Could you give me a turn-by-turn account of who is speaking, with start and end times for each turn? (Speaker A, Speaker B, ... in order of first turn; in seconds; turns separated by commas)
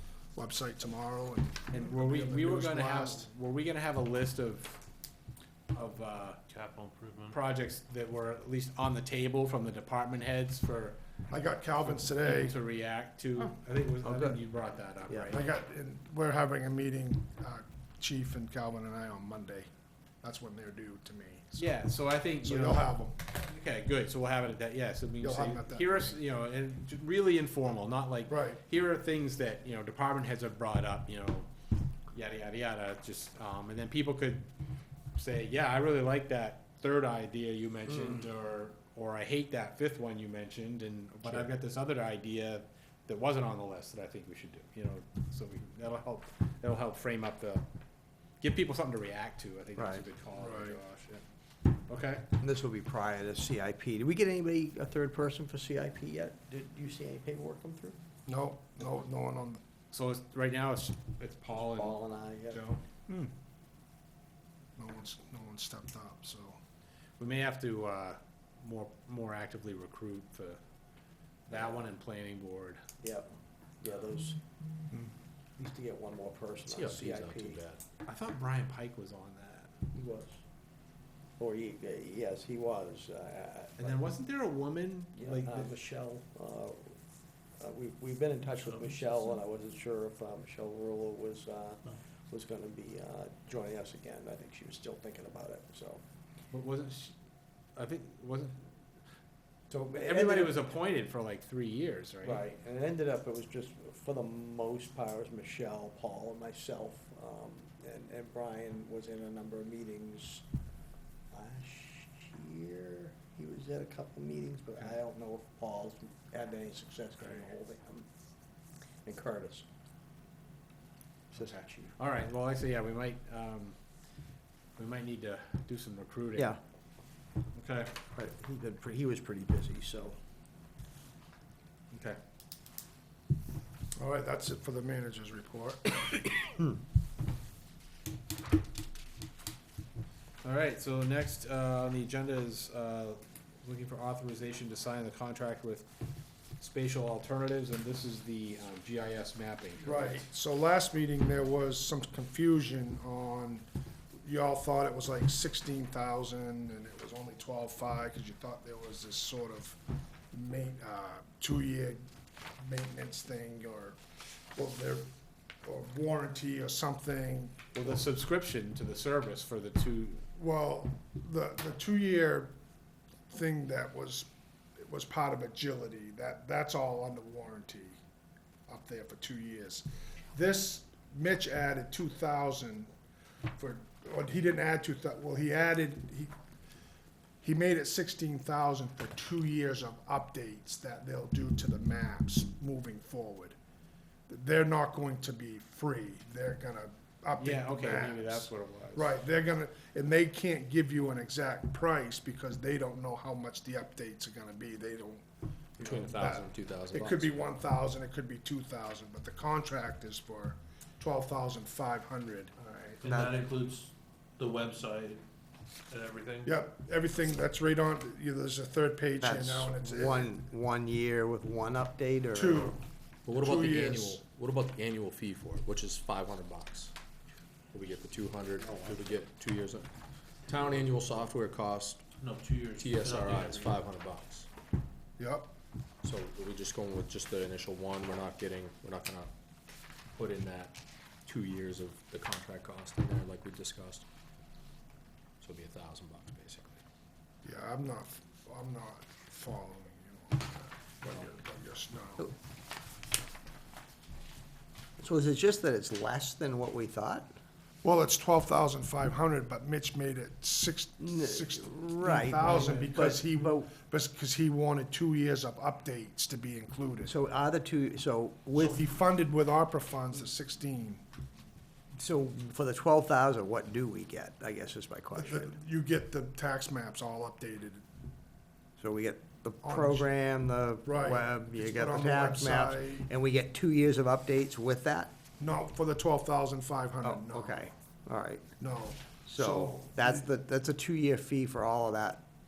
Speaker A: 0.3-3.3, Speaker B: 1.7-4.8, Speaker B: 5.7-6.4, Speaker C: 6.5-7.4, Speaker B: 7.3-11.0, Speaker A: 11.3-12.6, Speaker B: 11.8-15.5, Speaker D: 13.4-14.4, Speaker D: 15.1-15.3, Speaker A: 15.3-19.7, Speaker A: 20.2-21.7, Speaker B: 21.6-31.5, Speaker A: 22.4-23.1, Speaker A: 25.2-26.2, Speaker A: 28.3-28.6, Speaker B: 32.1-34.5, Speaker B: 35.1-47.6, Speaker B: 48.4-51.2, Speaker D: 49.8-50.0, Speaker A: 50.3-50.8, Speaker B: 51.9-52.2, Speaker D: 52.4-58.0, Speaker A: 58.3-59.6, Speaker B: 59.9-62.0, Speaker D: 61.6-62.6, Speaker A: 62.5-63.3, Speaker A: 64.8-66.6, Speaker B: 67.2-70.6, Speaker D: 71.5-71.9, Speaker B: 71.5-72.8, Speaker D: 73.0-73.3, Speaker D: 73.8-74.4, Speaker D: 75.6-77.6, Speaker E: 76.7-77.8, Speaker B: 78.0-79.7, Speaker D: 79.9-80.4, Speaker D: 81.4-84.0, Speaker B: 83.8-85.7, Speaker D: 85.1-87.0, Speaker D: 87.6-96.0, Speaker B: 96.5-97.1, Speaker B: 97.8-98.7, Speaker D: 99.7-100.8, Speaker B: 99.9-102.4, Speaker D: 102.2-110.5, Speaker D: 111.3-118.1, Speaker D: 119.0-119.7, Speaker D: 121.3-121.9, Speaker B: 121.3-123.8, Speaker B: 124.8-126.5, Speaker D: 126.3-126.6, Speaker B: 127.5-127.9, Speaker D: 128.1-130.2, Speaker B: 131.9-132.2, Speaker A: 133.9-136.2, Speaker B: 140.4-145.9, Speaker B: 146.6-150.2, Speaker A: 149.8-153.7, Speaker A: 154.2-162.0, Speaker A: 162.6-164.0, Speaker A: 164.5-165.1, Speaker A: 165.6-168.0, Speaker B: 167.7-170.2, Speaker A: 170.3-172.5, Speaker A: 173.3-178.0, Speaker A: 178.7-182.9, Speaker A: 183.5-186.3, Speaker A: 187.4-193.6, Speaker A: 194.3-205.2, Speaker B: 197.4-199.2, Speaker E: 205.8-207.3, Speaker A: 205.8-213.0, Speaker C: 213.0-215.2, Speaker D: 213.0-213.4, Speaker C: 215.9-216.5, Speaker A: 216.4-220.3, Speaker D: 219.2-222.8, Speaker A: 222.3-224.2, Speaker E: 223.2-226.9, Speaker E: 227.7-229.9, Speaker E: 230.5-232.1, Speaker C: 232.2-233.8, Speaker E: 232.8-234.5, Speaker A: 235.2-235.5, Speaker E: 236.0-239.3, Speaker E: 240.1-244.1, Speaker E: 245.4-246.8, Speaker A: 247.4-252.3, Speaker D: 255.0-257.3, Speaker A: 257.8-267.1, Speaker D: 261.0-263.7, Speaker B: 262.4-262.8, Speaker D: 267.1-268.9, Speaker A: 268.5-271.0, Speaker D: 271.9-275.6, Speaker A: 275.1-277.8, Speaker D: 278.8-285.1, Speaker A: 279.6-280.1, Speaker A: 280.8-283.1, Speaker A: 285.4-287.7, Speaker D: 287.0-288.5, Speaker A: 288.6-290.2, Speaker D: 289.2-292.2